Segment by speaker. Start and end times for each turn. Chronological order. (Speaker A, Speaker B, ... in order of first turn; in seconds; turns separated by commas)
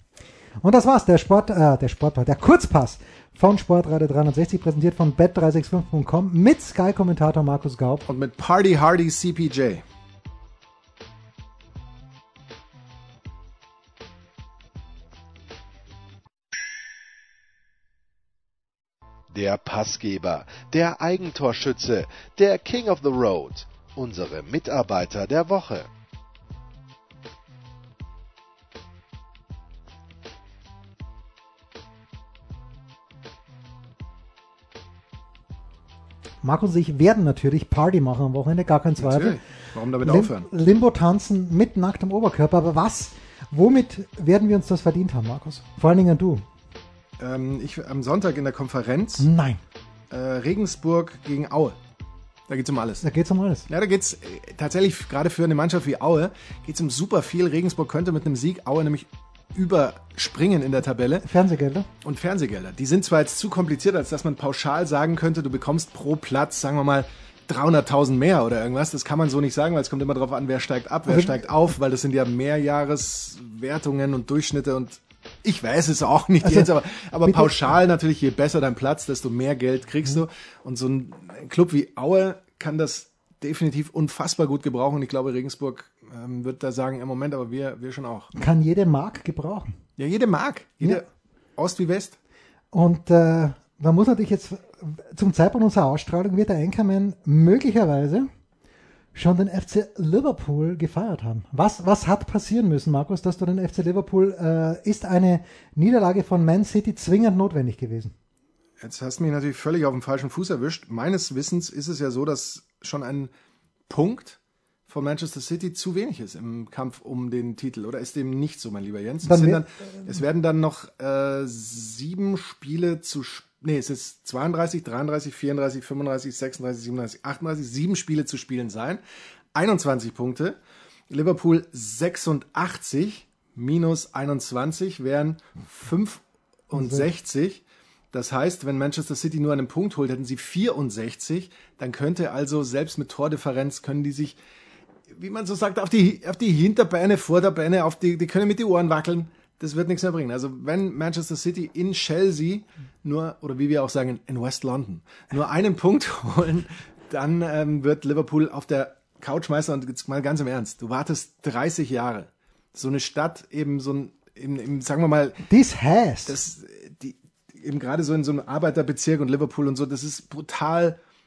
Speaker A: 0.6-8.1, Speaker B: 8.1-9.8, Speaker C: 19.3-25.9, Speaker A: 36.4-39.4, Speaker B: 39.0-40.5, Speaker A: 40.0-46.5, Speaker B: 47.2-49.3, Speaker A: 49.2-49.6, Speaker B: 50.1-51.8, Speaker B: 52.5-53.0, Speaker A: 53.0-53.7, Speaker B: 53.7-61.2, Speaker A: 61.2-61.9, Speaker B: 62.0-88.3, Speaker A: 71.1-71.4, Speaker A: 76.4-76.7, Speaker A: 77.2-77.6, Speaker A: 88.3-89.8, Speaker B: 90.0-91.0, Speaker B: 91.5-92.2, Speaker A: 92.7-98.3, Speaker A: 99.1-108.1, Speaker B: 108.8-113.3, Speaker B: 113.9-129.0, Speaker A: 119.2-120.1, Speaker B: 129.5-144.4, Speaker A: 136.7-137.1, Speaker B: 145.1-165.4, Speaker A: 165.5-166.4, Speaker B: 166.2-171.0